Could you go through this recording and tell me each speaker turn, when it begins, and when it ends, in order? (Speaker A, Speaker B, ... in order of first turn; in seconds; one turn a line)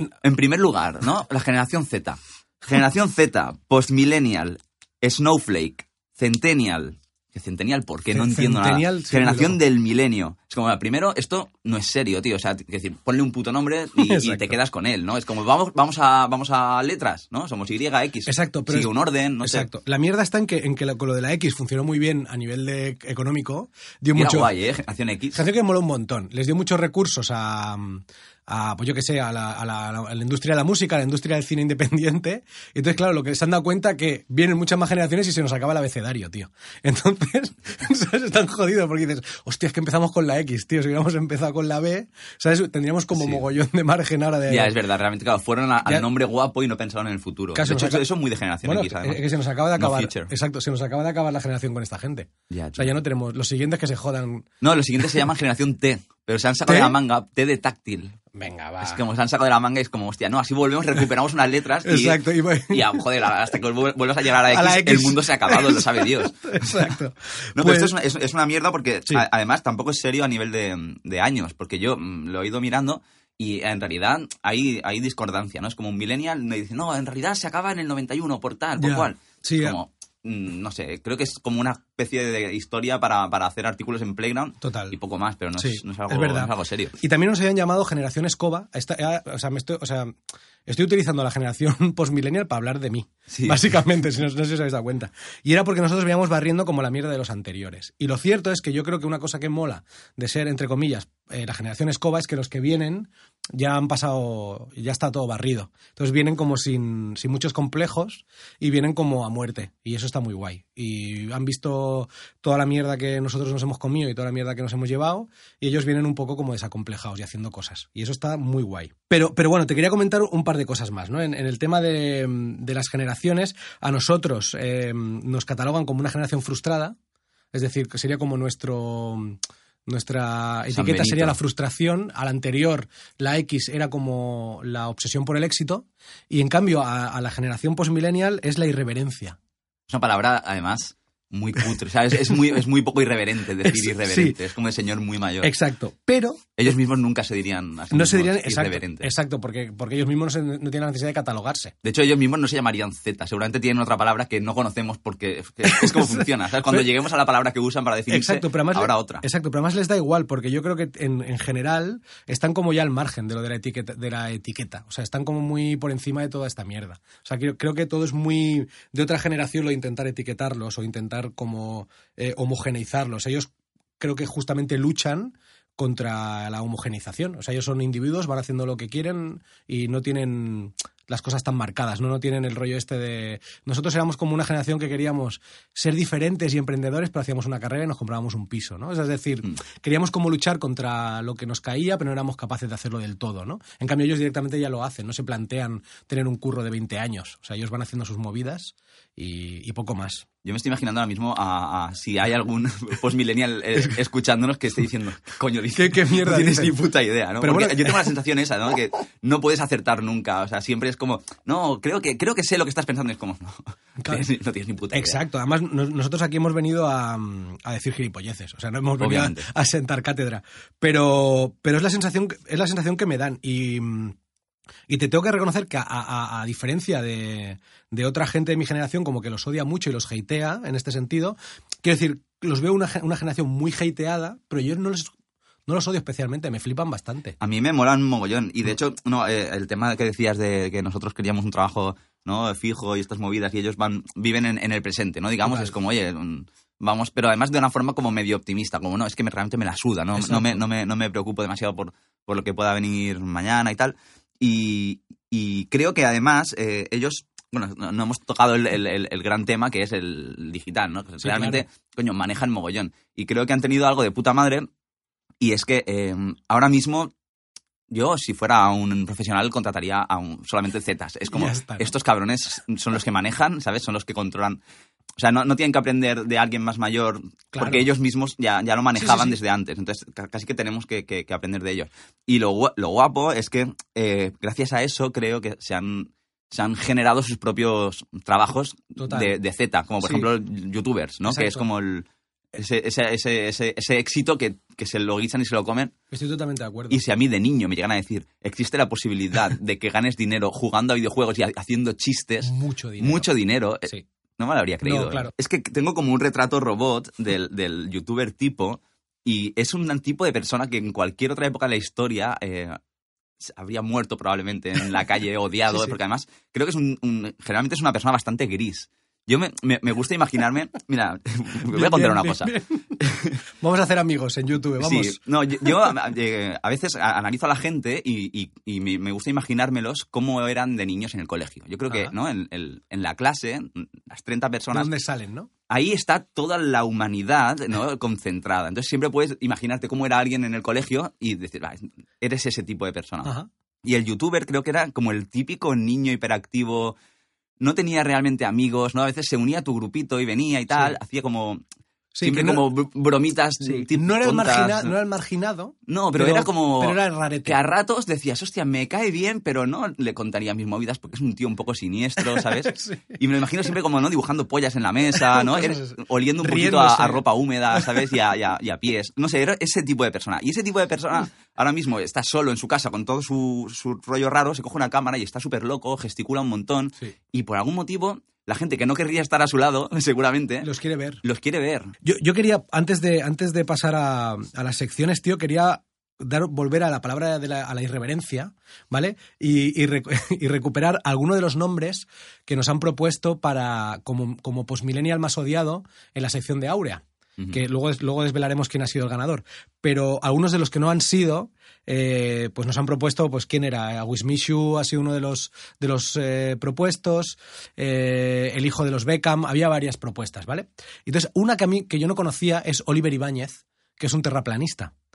Speaker A: 0.2-19.7
Speaker B: 8.1-9.6
Speaker B: 14.0-14.6
Speaker B: 18.3-24.5
Speaker A: 24.1-25.4
Speaker B: 25.3-44.7
Speaker A: 43.1-43.5
Speaker A: 44.5-49.2
Speaker B: 47.5-48.0
Speaker B: 48.6-54.5
Speaker A: 49.8-50.3
Speaker A: 52.5-52.9
Speaker A: 54.6-58.2
Speaker B: 56.7-57.0
Speaker B: 58.3-59.0
Speaker A: 58.8-66.9
Speaker B: 61.8-63.0
Speaker B: 64.5-67.9
Speaker A: 67.5-87.0
Speaker B: 78.8-79.8
Speaker B: 84.6-85.0
Speaker B: 85.6-127.0
Speaker A: 93.3-93.6
Speaker B: 127.5-139.4
Speaker A: 130.7-131.4
Speaker A: 139.9-145.5
Speaker B: 143.6-144.4
Speaker B: 145.4-146.6
Speaker A: 146.6-149.1
Speaker B: 147.9-151.7
Speaker A: 151.8-159.2
Speaker B: 155.6-156.9
Speaker B: 158.1-200.3
Speaker A: 200.4-215.2
Speaker B: 205.8-206.8
Speaker B: 207.4-208.1
Speaker B: 214.9-224.2
Speaker A: 219.0-219.5
Speaker B: 224.9-235.1
Speaker B: 235.7-237.4
Speaker A: 237.4-264.7
Speaker B: 245.4-245.7
Speaker B: 250.2-250.7
Speaker B: 261.2-261.6
Speaker A: 265.4-267.1
Speaker A: 267.9-274.6
Speaker B: 271.3-271.9
Speaker A: 275.2-295.9
Speaker B: 277.5-277.9
Speaker B: 279.0-279.4
Speaker B: 289.0-289.4
Speaker B: 290.0-290.3
Speaker B: 291.2-291.7
Speaker B: 296.1-297.0
Speaker A: 296.9-312.8
Speaker B: 302.4-303.3
Speaker B: 304.8-305.3
Speaker A: 313.4-323.4
Speaker B: 315.7-316.0
Speaker B: 321.7-323.1
Speaker B: 323.6-325.7
Speaker A: 324.8-334.9
Speaker B: 334.7-335.5
Speaker A: 335.7-347.0
Speaker B: 343.2-343.5
Speaker A: 347.6-351.6
Speaker B: 350.7-351.0
Speaker B: 352.1-352.7
Speaker A: 352.2-354.9
Speaker B: 353.6-357.6
Speaker A: 355.9-380.7
Speaker B: 362.2-363.2
Speaker B: 365.1-368.1
Speaker B: 380.6-381.2
Speaker A: 381.2-381.9
Speaker B: 382.0-414.9